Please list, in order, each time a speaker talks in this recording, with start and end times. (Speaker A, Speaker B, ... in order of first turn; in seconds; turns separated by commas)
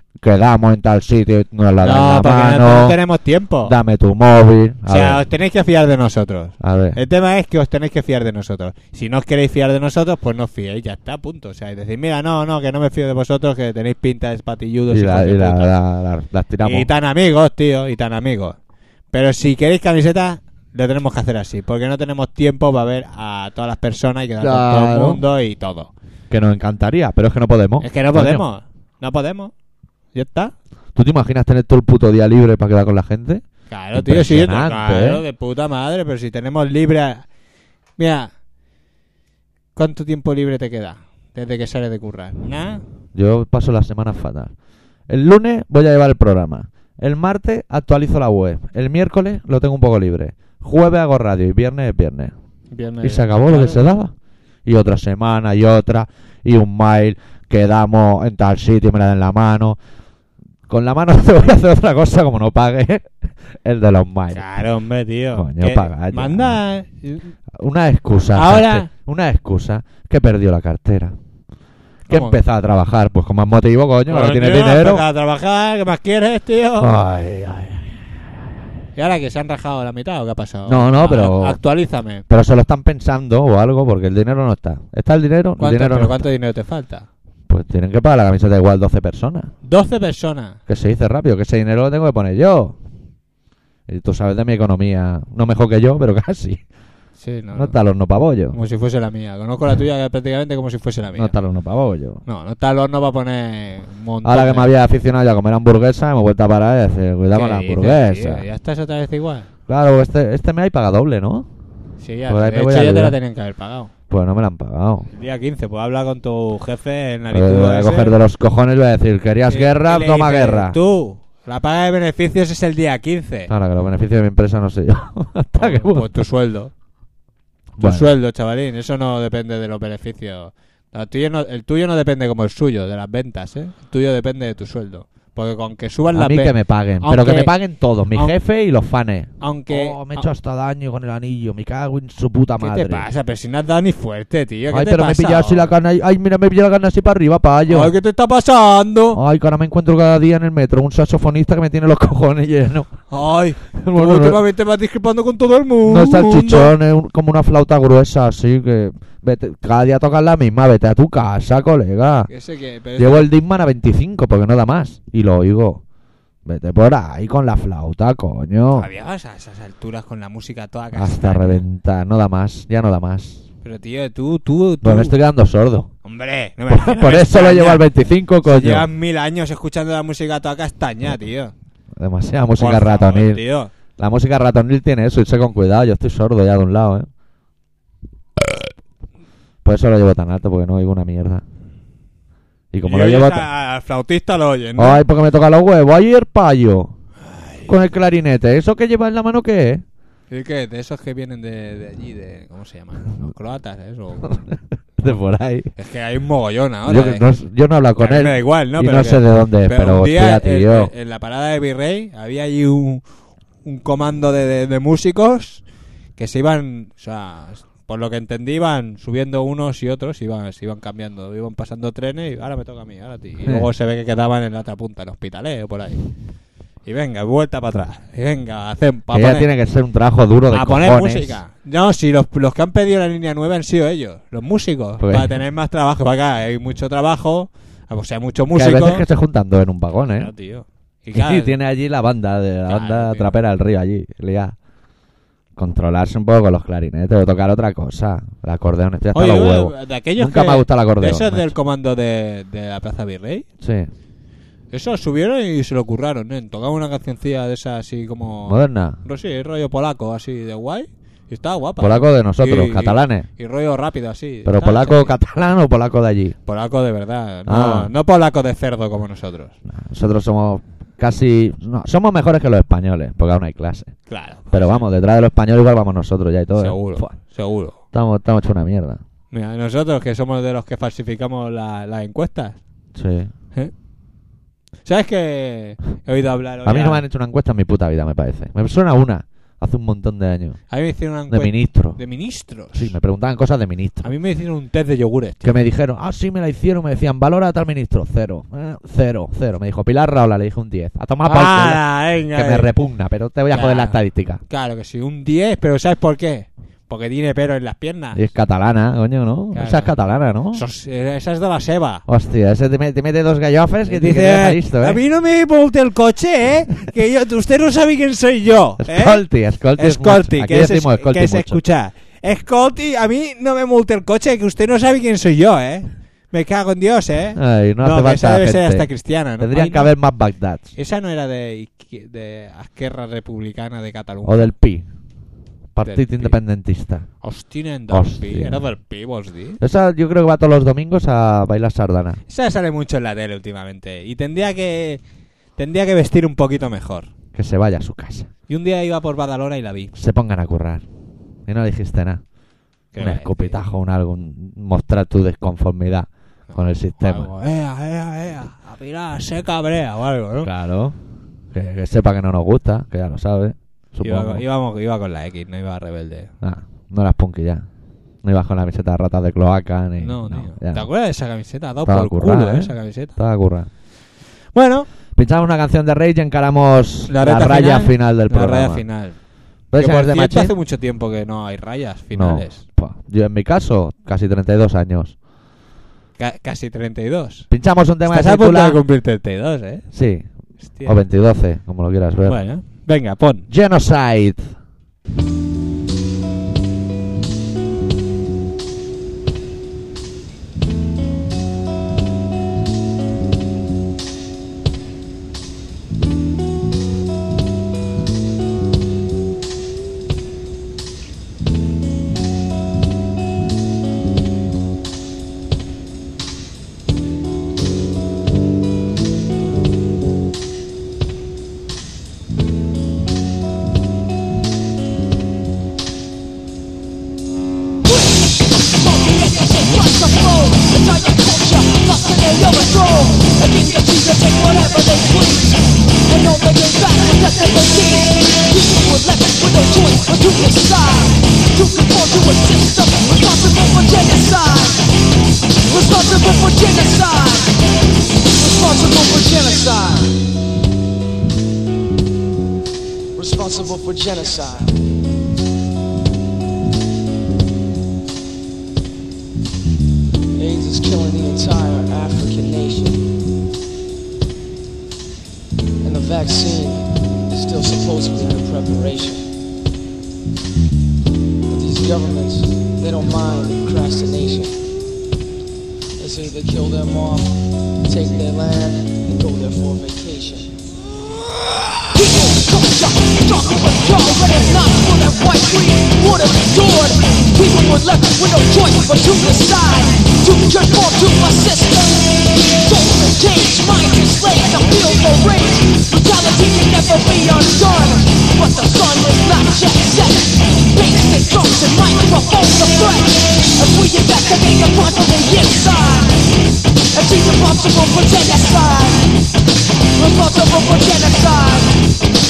Speaker A: 0.2-3.0, Speaker B: 1.8-3.7, Speaker A: 3.6-5.2, Speaker B: 4.9-15.7, Speaker A: 6.6-7.0, Speaker A: 14.9-16.9, Speaker B: 16.6-18.6, Speaker B: 19.1-25.9, Speaker A: 24.4-25.2, Speaker A: 26.3-28.4, Speaker B: 27.8-29.5, Speaker B: 30.1-30.5, Speaker A: 30.9-35.2, Speaker B: 33.7-37.2, Speaker B: 38.0-38.3, Speaker B: 39.8-42.8, Speaker A: 43.1-44.5, Speaker A: 45.1-52.3, Speaker B: 52.7-53.9, Speaker A: 53.0-54.1, Speaker A: 54.6-59.8, Speaker A: 60.7-64.5, Speaker B: 64.3-67.3, Speaker A: 65.3-66.6, Speaker A: 67.5-71.1, Speaker B: 68.3-68.9, Speaker B: 72.1-72.4, Speaker A: 72.1-75.0, Speaker B: 74.1-76.9, Speaker A: 76.8-77.9, Speaker B: 79.0-82.2, Speaker A: 80.7-81.6, Speaker A: 82.3-86.2, Speaker B: 85.6-87.1, Speaker A: 87.5-89.5, Speaker B: 89.6-90.6, Speaker A: 90.7-92.8, Speaker A: 93.9-96.6, Speaker B: 97.2-97.8, Speaker A: 97.5-98.5, Speaker B: 98.5-101.3, Speaker A: 101.2-102.2, Speaker B: 102.2-104.7, Speaker A: 104.2-108.4, Speaker B: 107.3-109.5, Speaker A: 109.7-111.5, Speaker B: 112.0-113.9, Speaker A: 112.3-113.2, Speaker A: 114.1-115.1, Speaker B: 115.1-118.2, Speaker A: 117.3-120.8, Speaker B: 119.5-123.5, Speaker A: 123.5-126.1, Speaker B: 125.5-126.7, Speaker A: 127.8-128.1, Speaker B: 127.8-137.5, Speaker A: 136.1-143.1, Speaker B: 139.4-140.3, Speaker B: 142.6-145.7, Speaker A: 144.7-147.9, Speaker B: 147.7-149.2, Speaker A: 149.1-152.9, Speaker B: 153.1-156.7, Speaker A: 153.8-154.4, Speaker A: 155.8-162.3, Speaker B: 162.3-163.3, Speaker A: 163.0-165.8, Speaker A: 166.4-168.9, Speaker B: 168.7-171.6, Speaker A: 170.9-173.4, Speaker B: 173.6-175.2, Speaker A: 174.8-175.9, Speaker B: 176.0-177.9, Speaker A: 176.7-178.9, Speaker B: 178.4-181.5, Speaker A: 182.0-183.4, Speaker B: 182.6-183.7, Speaker A: 184.0-187.1, Speaker A: 189.6-191.4, Speaker A: 192.7-193.4, Speaker B: 192.8-195.0, Speaker A: 194.8-196.9, Speaker B: 197.2-197.8, Speaker A: 197.7-199.8, Speaker B: 200.3-204.4, Speaker A: 204.3-205.7, Speaker B: 205.8-207.3, Speaker A: 206.8-210.9, Speaker B: 208.0-213.0, Speaker B: 213.6-215.6, Speaker B: 216.2-226.0, Speaker B: 226.8-229.5, Speaker A: 229.1-231.4, Speaker B: 230.5-239.0, Speaker A: 235.0-235.3, Speaker A: 238.5-240.3, Speaker B: 240.2-241.6, Speaker A: 241.1-244.5, Speaker B: 242.7-243.4, Speaker A: 245.6-251.5, Speaker B: 249.1-253.4, Speaker A: 253.6-253.9, Speaker B: 254.7-265.1, Speaker A: 258.4-259.0, Speaker A: 261.8-263.3, Speaker A: 264.4-266.4, Speaker B: 266.4-269.5, Speaker A: 267.5-267.9, Speaker A: 269.7-273.9, Speaker B: 274.1-274.9, Speaker A: 274.5-277.1, Speaker B: 276.5-277.8, Speaker A: 277.9-279.0, Speaker B: 279.3-282.6, Speaker A: 282.9-283.3, Speaker B: 284.8-287.0, Speaker A: 286.6-290.6, Speaker B: 290.7-292.9, Speaker A: 291.3-292.0, Speaker A: 292.7-294.1, Speaker B: 294.0-295.5, Speaker A: 295.4-304.4, Speaker B: 301.2-302.7, Speaker B: 303.5-304.0, Speaker B: 304.5-308.2, Speaker A: 308.1-310.6, Speaker B: 309.5-309.9, Speaker B: 310.5-312.0, Speaker A: 312.1-315.0, Speaker B: 313.8-319.2, Speaker A: 318.8-321.6, Speaker B: 319.8-329.9, Speaker A: 327.4-330.7, Speaker B: 330.8-334.5, Speaker A: 334.2-334.9, Speaker A: 335.7-337.1, Speaker B: 335.8-336.4, Speaker B: 337.2-339.6, Speaker A: 337.9-338.6, Speaker A: 339.6-342.2, Speaker B: 342.3-345.0, Speaker B: 345.6-347.1, Speaker A: 347.3-348.3, Speaker B: 348.5-349.9, Speaker A: 349.9-350.8, Speaker A: 351.5-352.2, Speaker B: 352.9-353.6, Speaker A: 353.0-357.3, Speaker B: 356.5-360.5, Speaker A: 360.4-361.0, Speaker A: 361.5-364.4, Speaker B: 364.0-366.3, Speaker A: 366.4-367.6, Speaker A: 368.2-370.9, Speaker B: 370.0-373.2, Speaker A: 371.8-373.7, Speaker B: 374.5-374.9, Speaker A: 375.1-378.8, Speaker B: 377.1-379.2, Speaker A: 379.7-380.5, Speaker B: 379.8-382.6, Speaker A: 382.1-385.1, Speaker B: 386.2-387.5, Speaker A: 387.5-388.8, Speaker B: 388.0-389.9, Speaker A: 389.9-390.2, Speaker B: 390.6-391.0, Speaker A: 390.8-392.4, Speaker B: 392.3-393.5, Speaker A: 393.5-394.5, Speaker C: 427.9-444.9, Speaker C: 445.6-447.6, Speaker C: 448.4-450.1, Speaker C: 453.1-454.7, Speaker C: 460.4-463.0, Speaker C: 465.8-469.2, Speaker C: 471.5-474.5, Speaker C: 476.0-480.5, Speaker C: 481.9-506.2, Speaker C: 506.9-509.1, Speaker C: 509.9-511.8